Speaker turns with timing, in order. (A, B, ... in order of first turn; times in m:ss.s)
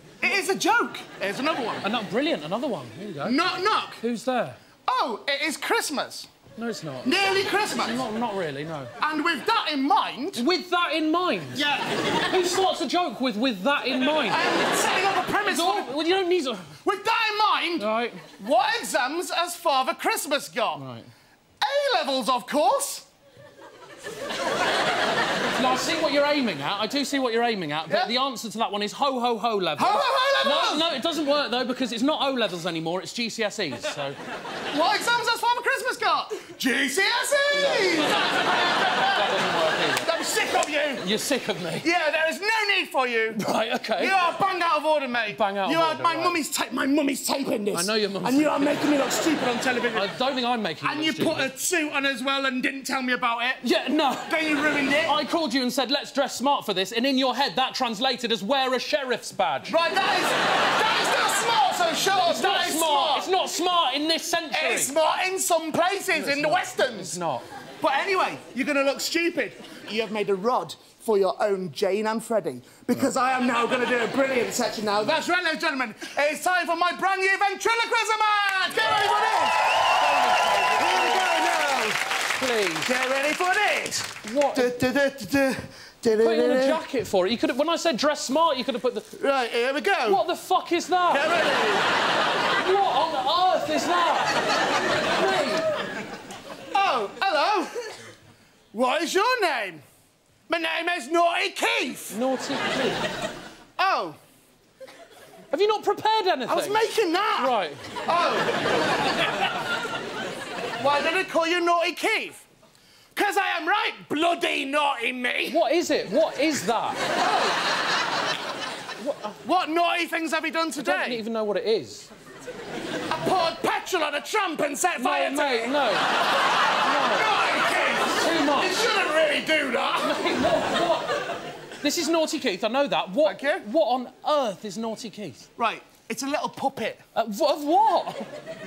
0:00.2-0:01.8 A
0:01.8-0:03.4 B
0:03.2-0:04.0 A
0:04.0-0:04.6 B
0:04.9-0:06.3 A
0:06.6-0:07.1 B
0:07.0-0:08.0 A
0:07.7-0:08.9 B
0:09.0-0:10.4 A
0:10.3-0:11.7 B
0:11.6-0:12.1 A
0:12.2-0:14.6 B
0:14.3-0:15.9 A
0:15.4-0:16.7 B
0:16.8-0:17.8 A
0:17.8-0:18.2 B
0:18.4-0:20.8 A
0:20.7-0:21.1 B
0:21.6-0:23.1 A
0:25.5-0:34.2 B
0:27.9-0:28.2 A
0:29.8-0:30.9 A
0:34.7-0:39.2 A
0:37.5-0:40.1 B
0:40.0-0:41.0 A
0:41.0-0:41.9 B
0:41.8-0:43.4 A
0:43.3-0:44.2 B
0:44.0-0:50.1 A
0:45.2-0:46.4 B
0:47.7-0:48.9 B
0:49.9-0:51.5 B
0:50.8-0:53.6 A
0:53.6-0:54.4 B
0:54.2-0:55.2 A
0:55.0-0:59.8 B
0:59.7-1:03.3 A
1:02.2-1:04.9 B
1:04.5-1:07.2 A
1:06.1-1:07.4 B
1:07.8-1:22.0 A
1:20.3-1:21.3 B
1:22.4-1:22.9 B
1:22.8-1:26.8 A
1:24.2-1:24.7 B
1:26.2-1:29.0 B
1:29.1-1:30.2 A
1:30.0-1:31.3 B
1:31.1-1:31.9 A
1:32.6-1:34.4 B
1:35.1-1:35.7 B
1:36.7-1:37.9 A
1:38.7-1:39.8 A
1:40.5-1:42.2 A
1:42.1-1:43.0 B
1:43.8-1:44.2 A
1:45.5-1:46.8 B
1:46.5-1:47.5 A
1:47.4-1:47.9 B
1:48.0-1:48.6 A
1:50.8-1:52.4 A
1:53.1-1:55.6 A
1:55.4-1:57.0 B
1:57.1-1:57.6 A
1:59.0-1:59.3 B
1:59.4-2:01.2 A
2:00.8-2:02.1 B
2:03.1-2:05.7 A
2:05.0-2:06.1 B
2:06.8-2:07.3 B
2:06.8-2:10.4 A
2:08.0-2:08.8 B
2:10.0-2:11.2 B
2:11.8-2:15.5 B
2:13.2-2:13.6 A
2:15.6-2:17.0 A
2:17.1-2:18.3 B